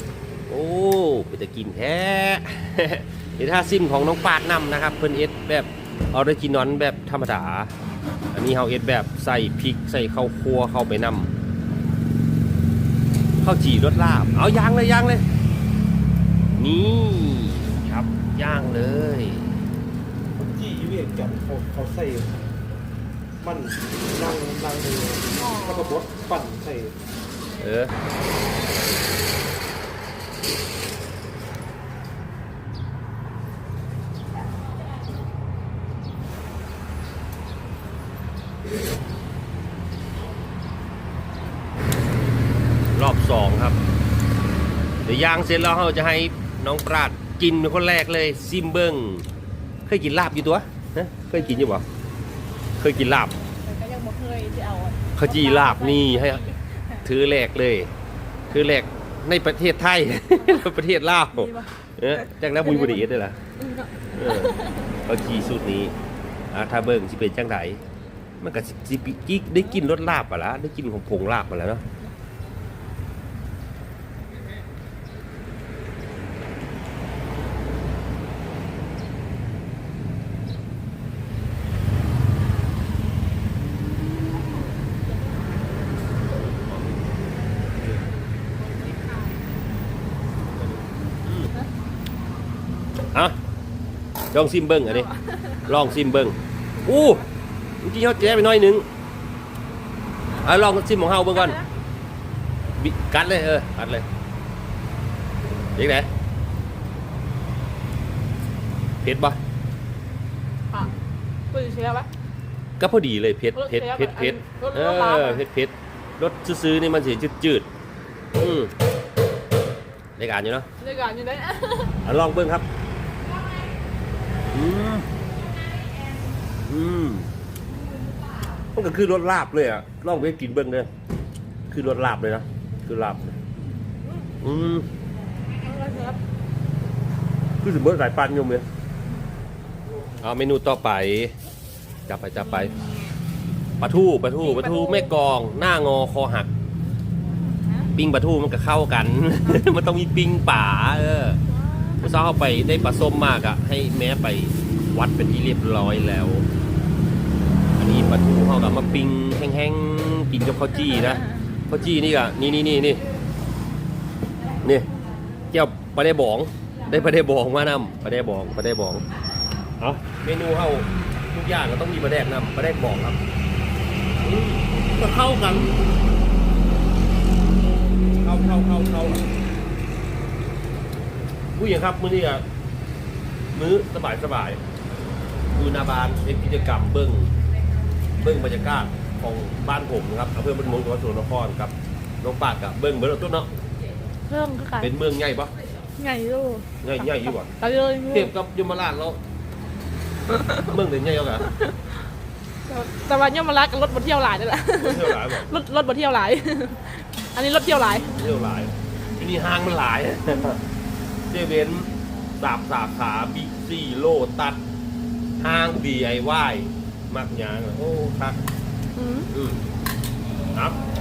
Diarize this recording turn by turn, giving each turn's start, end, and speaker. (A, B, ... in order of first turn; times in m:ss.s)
0:00.5-0:07.7 A
0:08.3-0:11.3 A
0:13.4-0:15.2 A
0:16.6-0:19.6 A
0:20.4-0:22.5 B
0:23.4-0:27.0 B
0:25.4-0:25.8 C
0:27.6-0:27.9 A
0:42.9-0:43.8 A
0:45.0-0:49.2 A
0:49.8-0:51.8 A
0:52.8-0:53.3 A
0:53.4-0:56.6 C
0:55.1-0:56.4 A
0:57.0-0:57.9 A
0:58.5-1:03.4 A
1:01.3-1:01.7 C
1:02.6-1:03.0 C
1:03.6-1:04.9 C
1:04.1-1:06.0 A
1:06.5-1:07.8 A
1:08.4-1:11.8 A
1:28.6-1:29.3 C
1:34.3-1:35.1 A
1:34.9-1:35.6 C
1:35.6-1:37.2 A
1:37.8-1:38.8 A
1:40.4-1:41.6 A
1:41.3-1:41.7 C
1:42.8-1:44.0 A
1:45.7-1:46.1 A
1:49.0-1:49.4 A
1:51.5-1:52.1 C
1:52.8-1:57.7 A
1:53.5-1:55.4 C
1:58.3-1:58.7 A
2:00.2-2:00.7 A
2:00.8-2:01.9 C
2:02.0-2:02.7 A
2:04.5-2:05.1 A
2:06.6-2:07.3 A
2:08.7-2:10.9 A
2:11.7-2:13.4 A
2:14.4-2:14.9 A
2:15.6-2:16.2 C
2:17.6-2:18.6 A
2:20.2-2:21.3 A
2:22.1-2:22.7 A
2:22.6-2:23.1 C
2:23.8-2:26.5 A
2:24.4-2:25.1 C
2:27.4-2:27.9 C
2:27.9-2:31.4 A
2:31.6-2:32.1 C
2:32.0-2:36.4 A
2:37.8-2:43.0 A
2:45.5-2:49.0 A
2:49.8-2:53.2 A
2:54.2-2:55.7 A
2:58.2-2:59.3 A
3:01.6-3:02.4 A
3:03.5-3:04.6 A
3:05.5-3:07.3 A
3:08.2-3:13.5 A
3:14.3-3:14.9 C
3:14.8-3:15.5 A
3:16.0-3:16.7 C
3:16.8-3:19.2 A
3:17.6-3:18.3 C
3:20.5-3:21.5 A
3:22.7-3:28.2 C
3:24.7-3:25.5 A
3:27.8-3:30.6 A
3:31.3-3:34.6 A
3:35.4-3:38.4 A
3:39.0-3:39.3 C
3:39.3-3:39.6 A